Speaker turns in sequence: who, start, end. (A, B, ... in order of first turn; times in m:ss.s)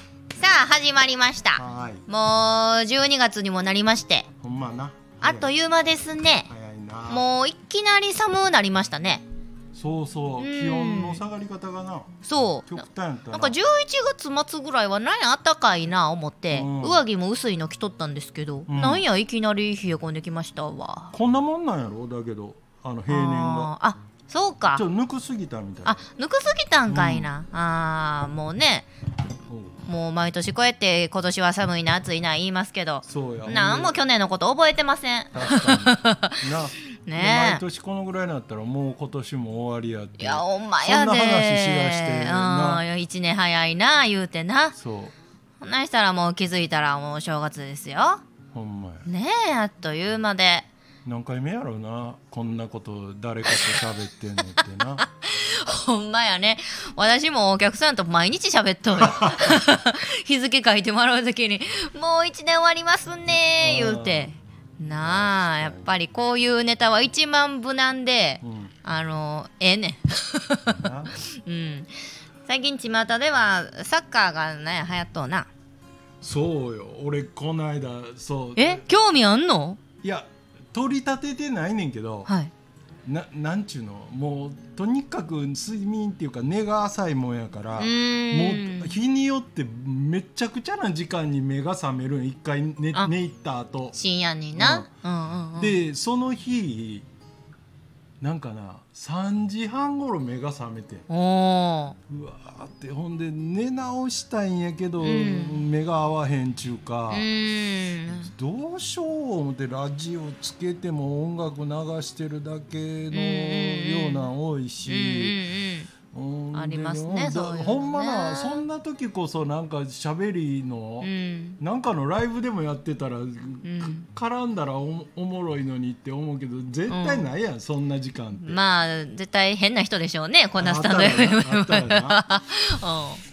0:00.4-0:04.3 A
0:01.6-0:02.0 B
0:04.4-0:05.5 B
0:05.2-0:06.5 A
0:06.5-0:07.2 B
0:07.1-0:09.2 A
0:09.7-0:12.1 B
0:10.4-0:11.2 A
0:12.2-0:12.8 A
0:12.7-0:13.6 B
0:13.3-0:21.1 A
0:16.5-0:17.0 B
0:18.7-0:19.0 B
0:21.1-0:23.7 B
0:23.1-0:24.8 A
0:24.7-0:26.0 B
0:25.8-0:28.9 A
0:26.9-0:27.3 B
0:29.5-0:29.8 B
0:29.8-0:36.4 A
0:33.0-0:34.0 B
0:35.3-0:42.8 B
0:37.0-0:37.6 A
0:40.2-0:44.7 A
0:44.7-0:45.1 B
0:45.6-0:48.2 A
0:48.5-0:49.1 B
0:49.0-0:50.7 A
0:51.0-0:55.0 B
0:53.5-0:53.7 A
0:54.6-1:11.9 A
0:59.0-0:59.6 B
1:03.6-1:04.3 B
1:05.0-1:05.9 B
1:08.4-1:08.7 B
1:10.8-1:11.1 B
1:12.4-1:15.5 A
1:16.2-1:18.8 B
1:18.6-1:19.8 A
1:20.0-1:22.3 B
1:22.3-1:22.5 A
1:23.0-1:34.0 B
1:27.8-1:29.0 A
1:33.9-1:35.8 A
1:34.6-1:34.9 B
1:35.6-1:37.0 B
1:38.2-1:41.0 B
1:41.1-1:42.0 A
1:42.1-1:47.3 B
1:45.0-1:45.6 A
1:47.1-1:48.3 A
1:48.1-1:55.4 B
1:53.1-1:54.3 A
1:54.9-1:55.9 A
1:56.1-2:08.6 B
1:56.5-1:58.6 A
2:01.0-2:01.6 A
2:03.6-2:04.0 A
2:06.9-2:07.3 A
2:08.4-2:13.2 A
2:10.6-2:12.2 B